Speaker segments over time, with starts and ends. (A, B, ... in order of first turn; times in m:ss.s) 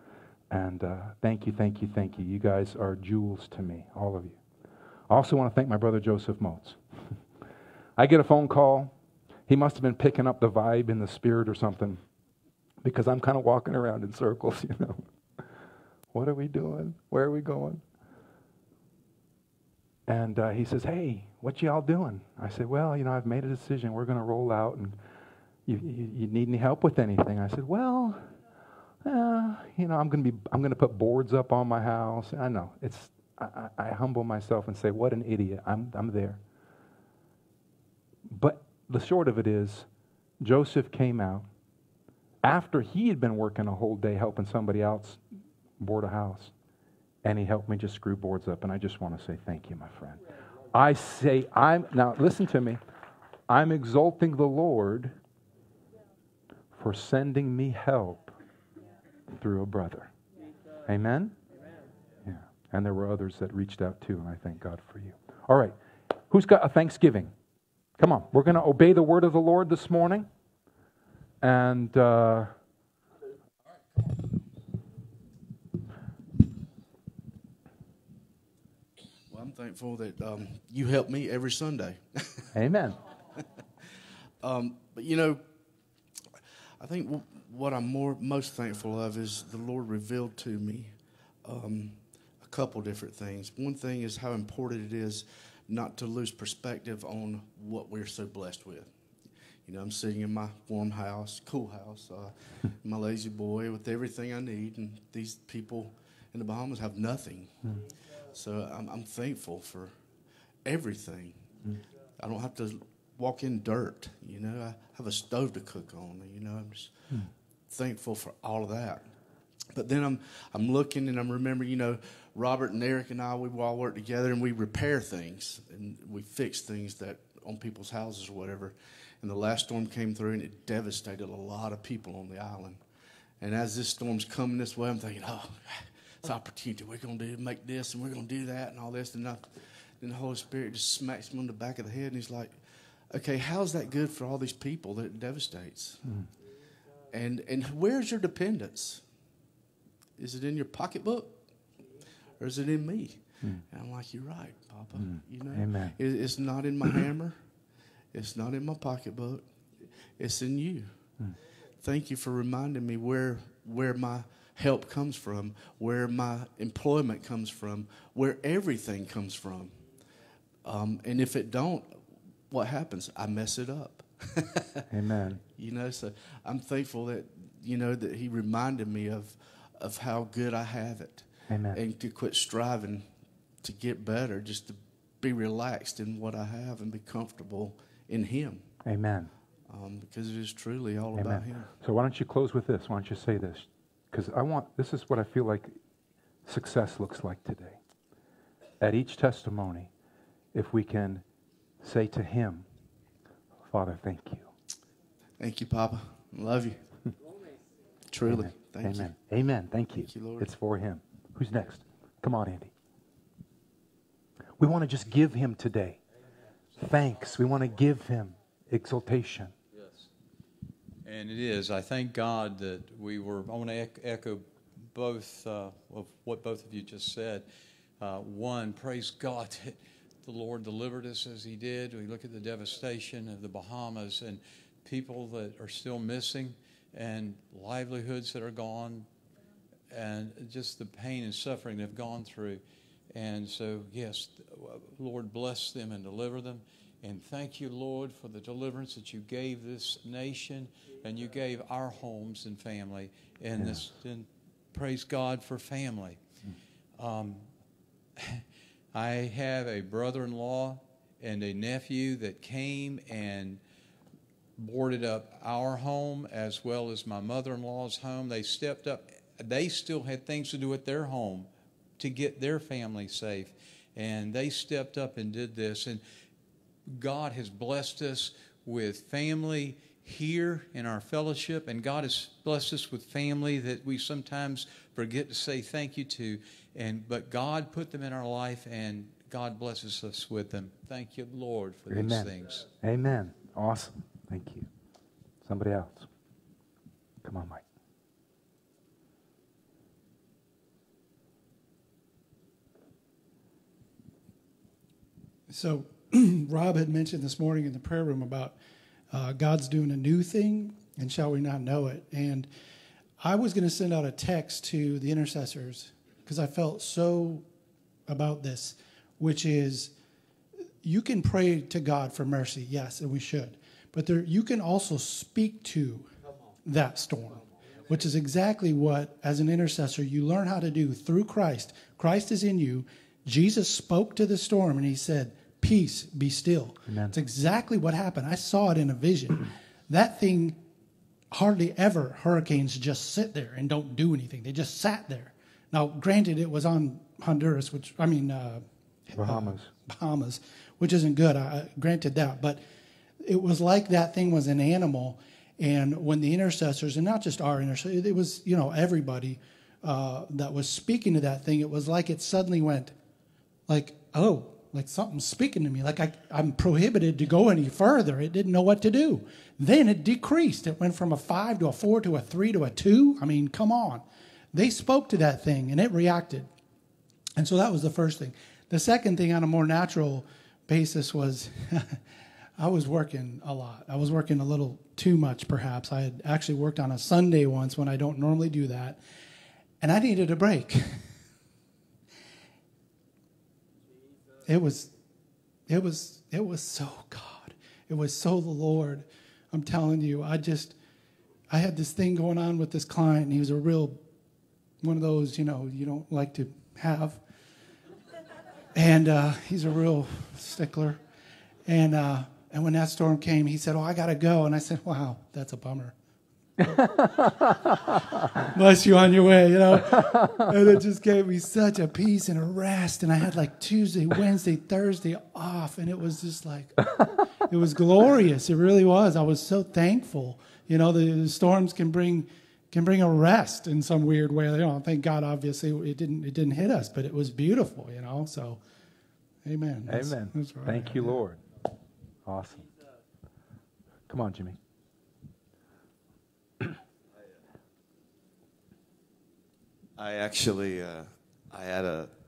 0:00.5-0:04.4 A
0:05.1-0:06.8 A
0:08.0-0:08.9 A
0:09.5-0:12.0 A
0:12.8-0:15.0 A
0:16.1-0:17.8 A
0:20.1-0:25.0 A
0:25.7-0:28.2 A
0:29.0-0:36.4 A
0:38.3-0:39.9 A
0:40.4-0:41.5 A
0:42.4-0:45.2 A
0:45.8-0:46.5 A
0:47.2-0:52.8 A
0:53.5-0:55.1 A
0:56.7-0:58.4 A
0:59.3-1:00.1 A
1:00.9-1:01.4 A
1:02.2-1:05.8 A
1:06.3-1:07.3 A
1:08.0-1:10.3 A
1:11.4-1:12.5 A
1:19.3-1:22.5 B
1:22.5-1:23.0 A
1:24.4-1:25.4 B
1:26.8-1:38.9 B
1:39.6-1:50.1 B
1:50.6-1:51.6 B
1:52.2-1:59.2 B
1:59.7-2:12.8 B
2:13.4-2:26.1 B
2:26.0-2:26.3 A
2:27.1-2:29.0 B
2:30.2-2:31.8 B
2:32.4-2:37.6 B
2:35.0-2:36.0 A
2:38.1-2:39.5 B
2:40.1-2:41.2 B
2:41.8-2:49.9 B
2:50.6-2:54.8 B
2:54.9-2:55.4 A
2:55.6-3:08.7 B
3:01.5-3:01.8 A
3:08.8-3:09.3 A
3:09.7-3:11.7 B
3:11.1-3:15.8 A
3:16.5-3:17.8 A
3:18.8-3:19.9 A
3:20.5-3:21.2 A
3:21.8-3:22.7 A
3:23.7-3:24.5 A
3:25.4-3:26.9 B
3:28.1-3:29.1 B
3:28.3-3:32.7 A
3:30.0-3:30.5 B
3:34.6-3:36.0 A
3:36.8-3:39.5 A
3:41.0-3:47.5 C
3:48.0-3:59.1 C
3:59.9-4:02.6 C
4:03.1-4:16.2 C
4:13.6-4:13.9 A
4:17.0-4:17.5 C
4:18.9-4:23.6 C
4:24.6-4:31.5 C
4:32.0-4:36.0 C
4:36.9-4:52.7 C
4:51.9-4:54.7 A
4:55.4-4:56.1 A
4:57.2-4:57.6 A
5:05.5-5:08.6 D
5:09.1-5:12.5 D
5:13.2-5:17.5 D
5:18.1-5:19.9 D
5:20.8-5:26.1 D
5:26.6-5:40.6 D
5:36.9-5:37.2 A
5:41.3-5:52.6 D
5:49.2-5:49.7 A
5:53.2-6:02.9 D
6:03.7-6:14.0 D
6:14.5-6:16.5 D
6:17.4-6:22.0 D
6:22.6-6:29.0 D
6:29.8-6:31.1 D
6:34.5-6:34.9 D
6:35.7-6:40.8 D
6:41.5-6:44.0 D
6:44.8-6:47.2 D
6:48.8-6:51.0 D
6:51.7-6:56.0 D
6:56.8-6:57.1 A
6:58.5-7:06.9 D
7:07.5-7:18.6 D
7:19.4-7:21.2 D
7:19.9-7:21.4 A
7:22.2-7:22.7 A
7:24.1-7:24.6 A
7:30.0-7:32.1 E